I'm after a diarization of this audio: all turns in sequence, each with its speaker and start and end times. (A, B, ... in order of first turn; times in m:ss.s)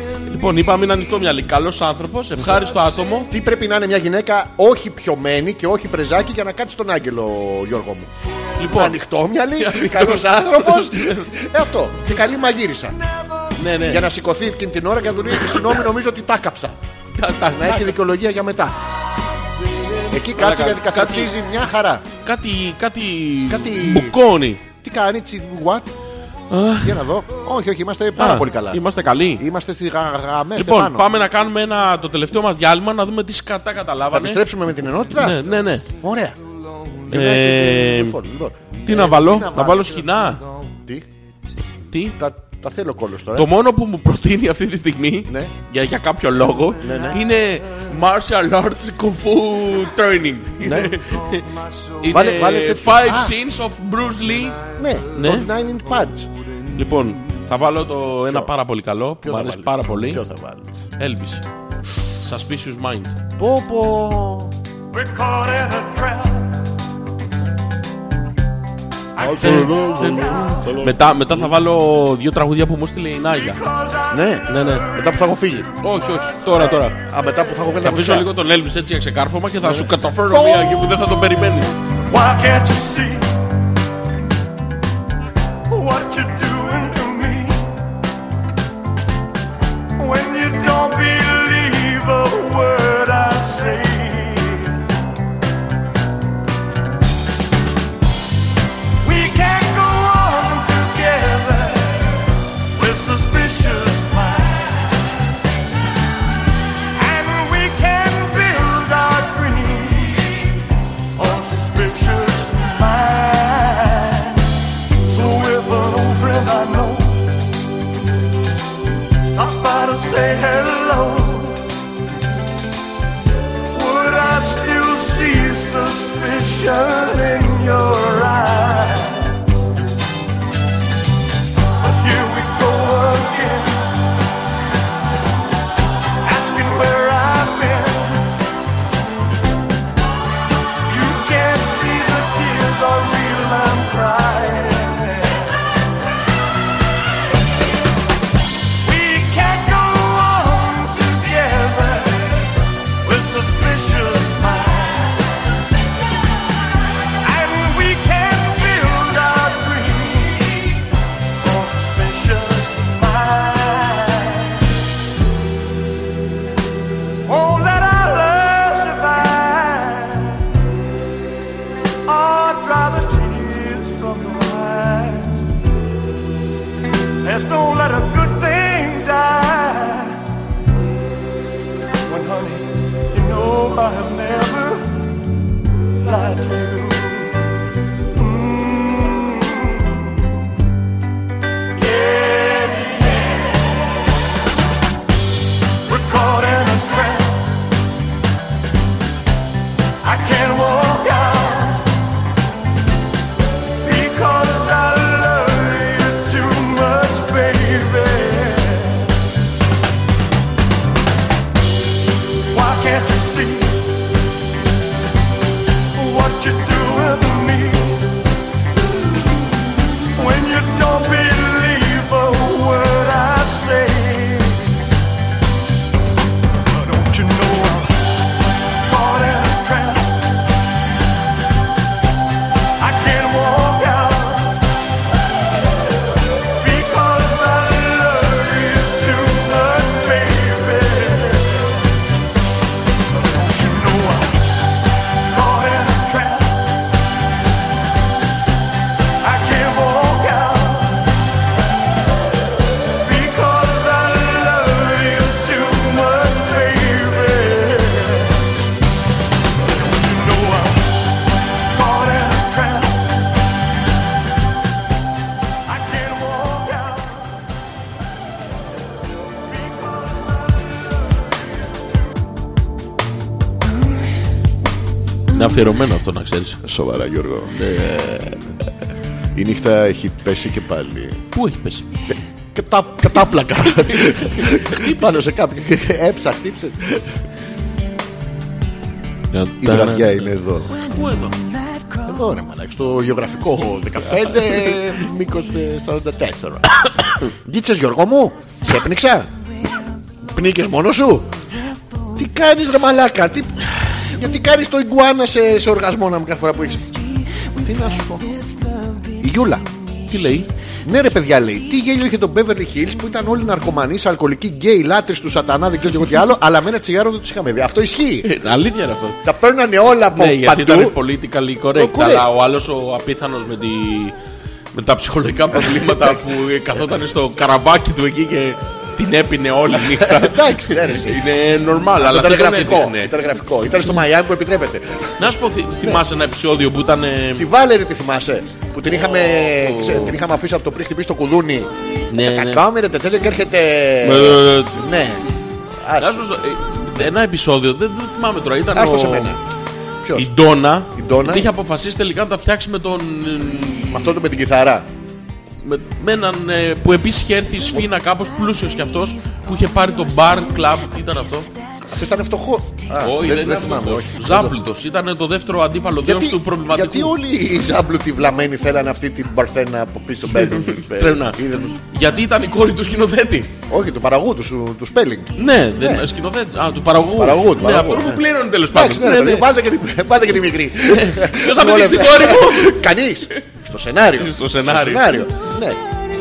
0:00.2-0:03.3 A
0:02.4-0:02.7 B
0:03.2-0:08.1 B
0:08.6-0:09.0 A
0:08.7-0:13.0 B
0:09.6-0:11.3 A
0:13.6-0:14.1 A
0:13.7-0:16.8 B
0:17.1-0:18.0 A
0:17.5-0:18.8 B
0:20.1-0:22.0 B
0:20.3-0:21.3 A
0:22.2-0:24.6 A
0:23.4-0:25.9 B
0:26.5-0:27.1 A
0:26.8-0:28.8 B
0:28.2-0:29.4 A
0:29.4-0:31.1 B
0:30.6-0:34.4 A
0:34.1-0:36.4 B
0:35.2-0:35.9 A
0:37.1-0:40.1 B
0:37.1-0:38.2 A
0:38.8-0:40.4 A
0:40.7-0:41.0 B
0:41.9-0:42.2 A
0:42.2-0:43.5 B
0:43.3-0:55.5 A
0:45.3-0:45.5 B
0:46.8-0:47.2 B
0:50.6-0:51.0 B
0:52.0-0:53.4 B
0:54.7-0:56.3 B
0:56.7-1:00.2 A
0:59.2-1:00.8 B
1:01.0-1:01.4 A
1:02.2-1:03.2 A
1:03.4-1:04.5 B
1:04.9-1:06.6 C
1:09.2-1:11.0 B
1:09.2-1:10.5 C
1:09.2-1:13.6 A
1:13.3-1:15.2 C
1:14.1-1:15.7 B
1:14.4-1:14.9 A
1:15.8-1:17.0 A
1:15.8-1:16.9 C
1:16.6-1:18.3 B
1:17.8-1:21.8 A
1:19.6-1:21.0 B
1:22.1-1:23.3 C
1:25.7-1:27.7 C
1:30.0-1:34.8 C
1:39.0-1:45.2 C
1:46.9-1:50.5 C
1:51.2-1:54.5 C
1:55.1-1:57.3 C
1:59.3-2:01.6 C
2:03.7-2:09.4 C
2:11.8-2:14.0 C
2:16.2-2:18.3 C
2:20.8-2:25.5 C
2:28.8-2:32.4 C
2:33.0-2:35.3 C
2:37.2-2:40.8 C
2:41.4-2:44.8 C
2:47.2-2:50.5 C
2:52.0-2:55.4 C
2:57.2-3:00.2 C
3:02.0-3:05.0 C
3:06.0-3:07.4 C
3:08.1-3:10.3 C
3:11.7-3:13.8 C
3:15.8-3:17.6 C
3:20.0-3:21.9 C
3:23.8-3:29.1 C
3:32.5-3:34.0 C
3:35.9-3:38.1 C
3:40.1-3:44.8 C
3:46.7-3:48.1 C
3:48.8-3:50.3 C
3:52.8-3:54.6 C
3:56.6-4:01.7 C
4:03.2-4:04.5 C
4:05.2-4:06.7 C
4:09.2-4:11.1 C
4:12.9-4:18.5 C
4:19.7-4:23.2 C
4:25.6-4:27.4 C
4:29.5-4:31.2 C
4:35.3-4:36.6 A
4:36.6-4:38.4 B
4:37.6-4:38.0 A
4:39.3-4:41.2 B
4:41.3-4:41.8 A
4:42.1-4:47.2 B
4:43.6-4:45.2 A
4:49.3-4:51.4 A
4:49.6-4:50.9 B
4:52.0-4:59.3 B
5:00.2-5:01.3 B
5:02.2-5:08.4 B
5:09.1-5:09.6 B
5:10.1-5:10.5 A
5:10.8-5:18.3 B
5:18.2-5:19.2 A
5:19.2-5:21.0 B
5:20.1-5:24.1 A
5:21.7-5:22.3 B
5:24.7-5:33.1 A
5:25.6-5:26.2 B
5:29.7-5:31.2 B
5:32.0-5:35.2 B
5:35.2-5:37.5 A
5:37.3-5:46.4 B
5:38.9-5:40.2 A
5:42.1-5:42.6 A
5:44.0-5:44.9 A
5:46.0-5:49.4 A
5:48.7-5:49.4 B
5:50.0-5:50.3 B
5:50.1-5:54.0 A
5:50.9-5:51.5 B
5:53.8-5:54.8 B
5:55.6-6:01.5 A
6:01.9-6:04.6 B
6:03.0-6:07.2 A
6:06.0-6:11.8 B
6:10.4-6:13.5 A
6:13.7-6:16.1 B
6:15.4-6:19.5 A
6:17.2-6:25.8 B
6:20.9-6:22.8 A
6:24.2-6:25.3 A